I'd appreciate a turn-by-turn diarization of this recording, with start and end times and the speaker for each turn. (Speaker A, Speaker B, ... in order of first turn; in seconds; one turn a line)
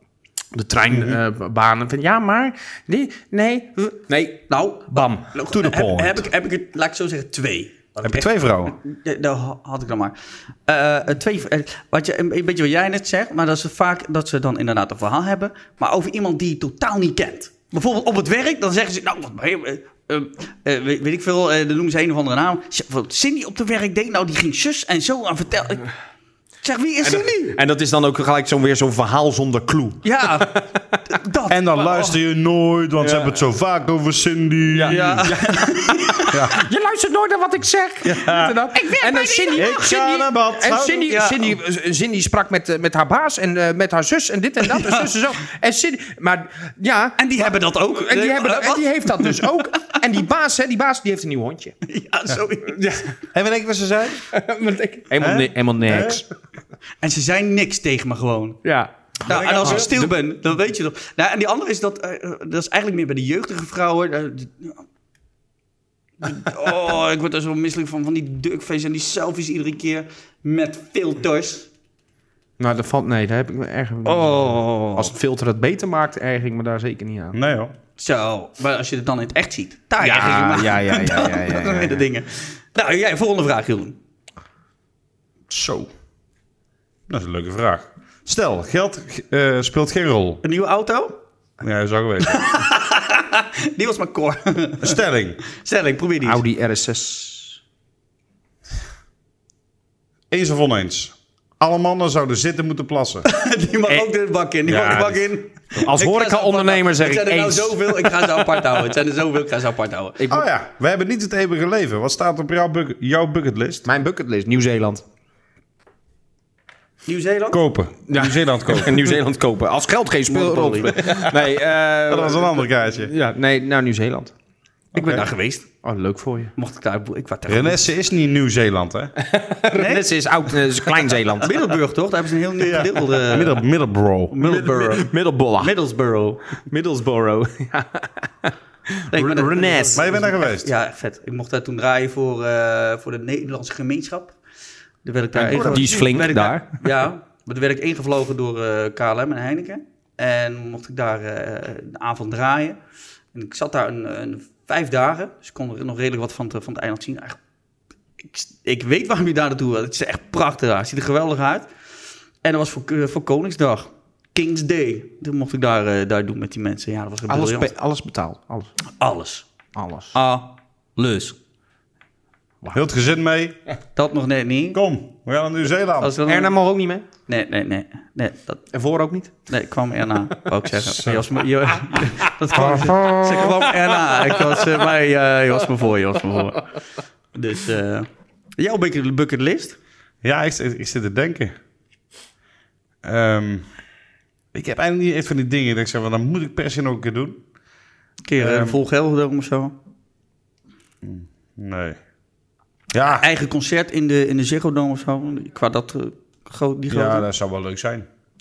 Speaker A: 0.5-5.3
Speaker B: 0.9-1.2
Speaker C: 4.5-10.1
Speaker B: 5.5-6.3
Speaker B: 8.0-8.8
Speaker C: 10.7-25.9
Speaker C: 26.6-27.6
Speaker A: 27.0-30.8
Speaker C: 30.0-30.5
Speaker C: 31.1-32.1
Speaker B: 31.5-35.3
Speaker A: 33.0-33.4
Speaker A: 34.7-51.7
Speaker C: 34.9-36.3
Speaker B: 36.3-36.6
Speaker B: 38.0-38.6
Speaker C: 38.7-39.8
Speaker B: 39.5-41.2
Speaker C: 41.1-41.5
Speaker C: 44.6-45.1
Speaker C: 47.2-50.0
Speaker C: 51.8-52.8
Speaker A: 52.7-53.1
Speaker B: 53.3-54.2
Speaker A: 54.3-56.2
Speaker B: 55.2-56.2
Speaker C: 57.0-58.6
Speaker A: 58.6-60.1
Speaker B: 59.2-59.9
Speaker C: 59.2-64.8
Speaker C: 66.2-71.7
Speaker A: 72.6-77.4
Speaker C: 74.0-75.1
Speaker B: 77.3-77.7
Speaker C: 78.0-84.0
Speaker A: 80.0-82.1
Speaker B: 85.5-85.9
Speaker B: 87.1-90.4
Speaker C: 90.4-91.2
Speaker B: 91.6-92.6
Speaker C: 92.2-95.0
Speaker B: 94.8-95.4
Speaker C: 95.5-96.4
Speaker A: 96.2-97.6
Speaker B: 100.3-103.2
Speaker C: 103.2-110.2
Speaker B: 104.7-105.2
Speaker A: 105.8-108.6
Speaker A: 110.2-110.5
Speaker B: 110.3-113.8
Speaker A: 113.8-115.0
Speaker C: 117.0-117.6
Speaker B: 117.5-119.2
Speaker A: 118.1-124.3
Speaker C: 120.3-121.0
Speaker B: 122.1-123.1
Speaker C: 124.9-125.7
Speaker A: 125.8-126.5
Speaker C: 126.5-127.9
Speaker B: 127.5-129.1
Speaker A: 129.2-131.5
Speaker C: 129.7-130.1
Speaker C: 131.4-133.6
Speaker B: 132.6-134.4
Speaker C: 134.3-136.4
Speaker A: 134.4-135.7
Speaker A: 136.6-140.2
Speaker C: 139.1-144.4
Speaker B: 139.9-140.7
Speaker C: 145.0-152.8
Speaker A: 145.4-146.8
Speaker B: 145.4-146.1
Speaker C: 153.3-157.4
Speaker C: 158.2-161.7
Speaker C: 162.4-167.7
Speaker A: 167.3-168.7
Speaker C: 169.0-169.4
Speaker A: 169.7-170.1
Speaker C: 170.1-171.4
Speaker B: 172.7-173.6
Speaker C: 173.9-174.8
Speaker B: 174.7-176.2
Speaker C: 176.0-176.5
Speaker A: 176.2-177.1
Speaker C: 177.3-178.6
Speaker A: 178.7-179.3
Speaker C: 179.5-186.7
Speaker B: 182.5-183.5
Speaker A: 182.6-183.7
Speaker C: 187.3-189.8
Speaker B: 190.2-191.5
Speaker B: 193.0-193.7
Speaker B: 194.5-197.4
Speaker C: 198.2-199.7
Speaker B: 198.4-198.8
Speaker B: 201.0-202.0
Speaker B: 202.9-203.2
Speaker C: 203.2-207.2
Speaker B: 206.9-208.1